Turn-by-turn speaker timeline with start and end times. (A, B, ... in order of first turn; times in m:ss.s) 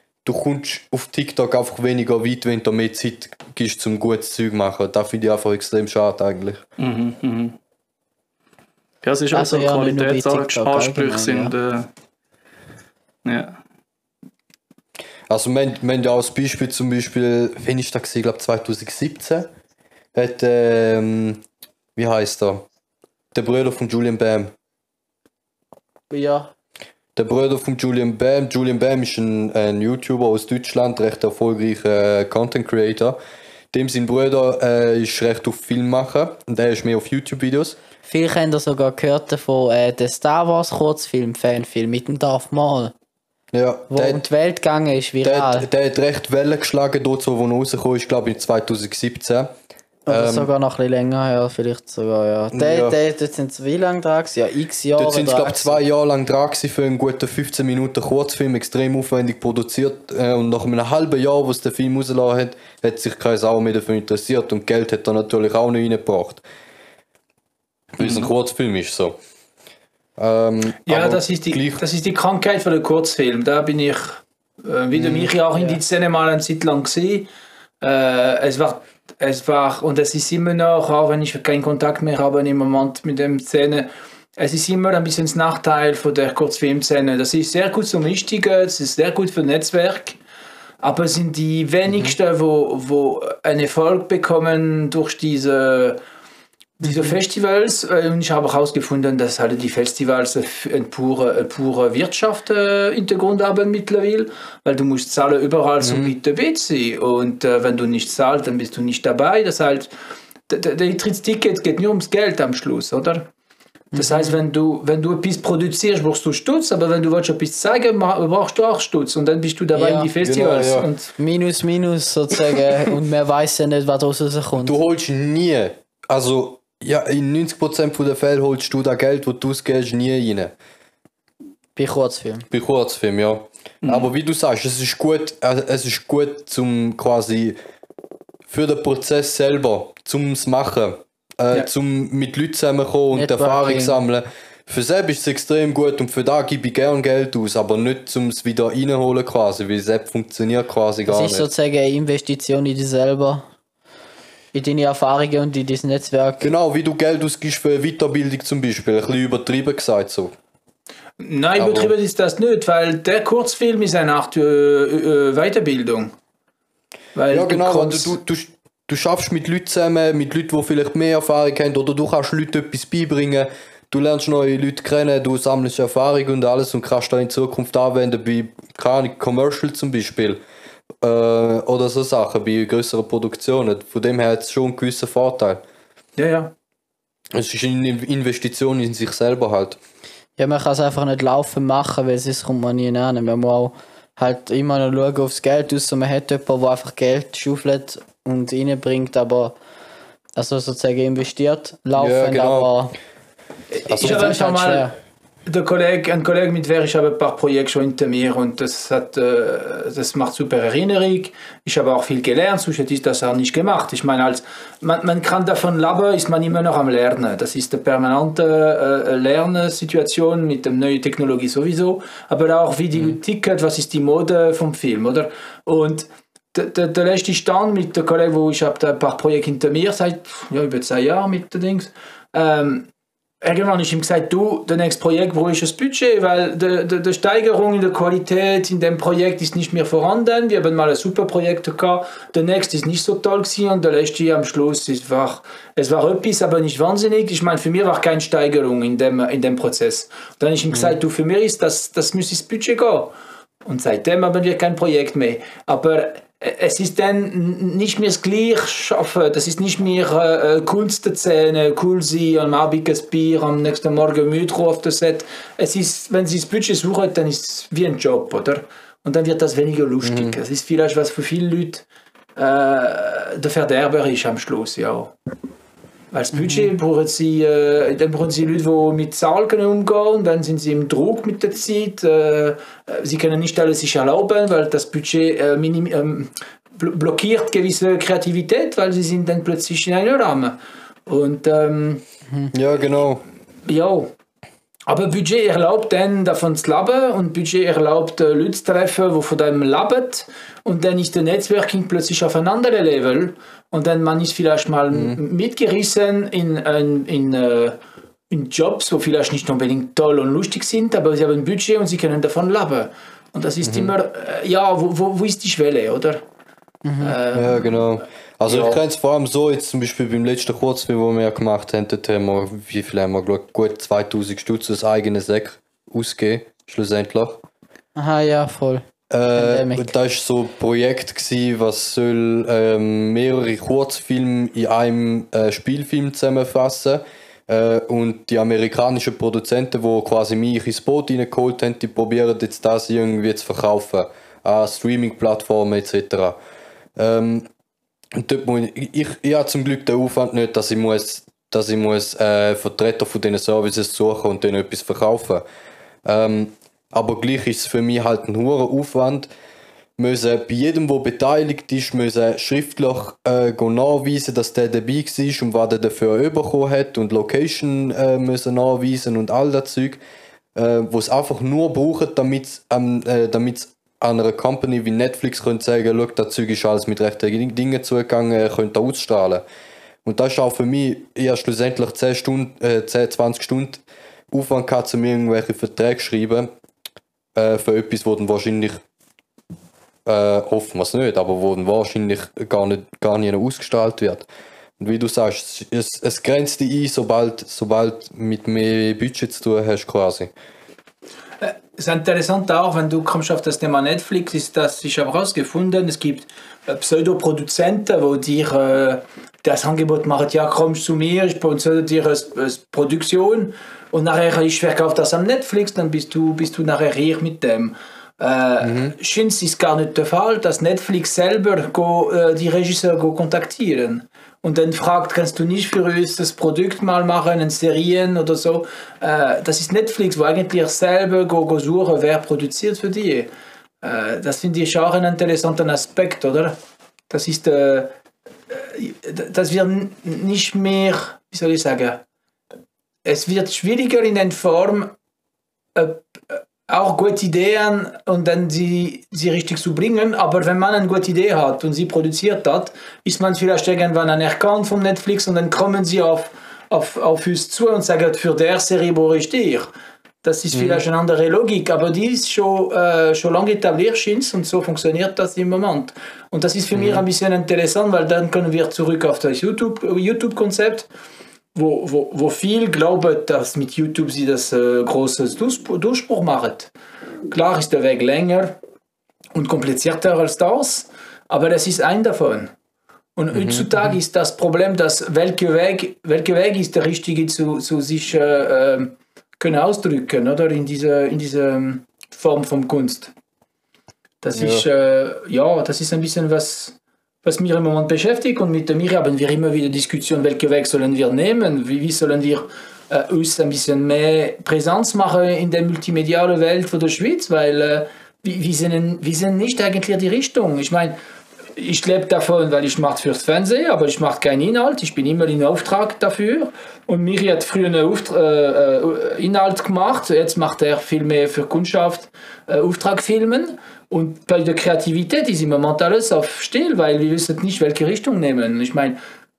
0:00.2-0:06.6 A
0:06.8-0:07.5 B
0:09.0-0:11.9 B
0:09.3-0:11.5 C
0:13.2-0:13.6 B
0:15.3-0:19.5 A
0:20.1-0:21.4 A
0:22.0-0:22.6 A
0:23.3-0:24.5 A
0:26.1-0:26.5 C
0:27.2-0:33.2 A
0:33.7-0:37.8 A
0:38.0-0:42.9 C
0:43.5-0:44.2 A
0:43.9-0:45.7 C
0:45.2-0:49.5 A
0:50.1-0:55.8 C
0:50.1-0:50.5 A
0:52.5-0:53.0 A
0:55.0-1:06.4 A
1:08.0-1:09.2 A
1:10.2-1:11.8 A
1:10.8-1:17.3 D
1:14.9-1:15.3 A
1:17.8-1:30.2 D
1:30.8-1:36.0 D
1:36.8-1:49.9 D
1:45.8-1:46.1 A
1:50.5-1:53.3 D
1:53.9-2:01.1 D
1:54.0-1:54.3 C
1:59.8-2:00.1 C
2:00.2-2:00.9 A
2:01.2-2:04.8 C
2:04.6-2:10.5 A
2:11.8-2:12.4 C
2:12.5-2:17.6 A
2:18.5-2:31.5 A
2:23.1-2:24.0 C
2:31.1-2:33.4 C
2:34.5-2:36.5 C
2:36.4-2:40.3 A
2:41.2-2:46.1 D
2:41.6-2:41.9 A
2:47.1-2:48.1 D
2:47.3-3:00.4 A
3:01.0-3:05.6 A
3:06.2-3:06.5 D
3:07.3-3:09.8 A
3:10.4-3:19.5 C
3:20.4-3:22.9 C
3:22.0-3:22.7 A
3:23.7-3:24.9 D
3:23.9-3:24.4 A
3:24.0-3:24.9 C
3:25.5-3:52.9 D
3:53.4-4:13.1 D
4:13.6-4:31.8 D
4:30.0-4:30.4 A
4:32.4-4:35.1 D
4:36.1-4:52.0 D
4:52.5-4:53.2 A
4:53.6-4:54.1 D
4:54.9-5:07.8 D
5:04.9-5:05.2 A
5:08.3-5:16.2 D
5:13.6-5:13.9 A
5:16.8-5:17.2 C
5:17.0-5:17.7 D
5:17.3-5:27.4 A
5:18.5-5:18.8 D
5:28.0-5:28.8 C
5:29.1-5:46.4 A
5:29.3-5:29.9 C
5:47.0-5:47.5 A
5:48.2-5:55.4 A
5:56.0-5:59.3 A
6:00.0-6:10.0 A
6:10.6-6:19.4 A
6:20.0-6:26.5 A
6:27.3-6:28.8 A
6:30.0-6:34.3 A
6:34.8-6:40.3 A
6:41.4-7:13.3 D
6:58.6-6:58.9 A
7:13.8-7:16.6 D
7:17.1-7:17.9 D
7:18.5-7:22.0 D
7:23.0-7:24.9 D
7:25.7-7:39.7 D
7:40.2-7:50.9 D
7:40.5-7:40.8 A
7:46.7-7:47.0 A
7:51.5-7:56.7 D
7:57.3-7:58.6 D
7:59.3-8:02.5 D
8:03.2-8:13.1 D
8:03.3-8:03.6 A
8:14.2-8:31.0 D
8:14.4-8:14.6 A
8:31.6-8:49.0 D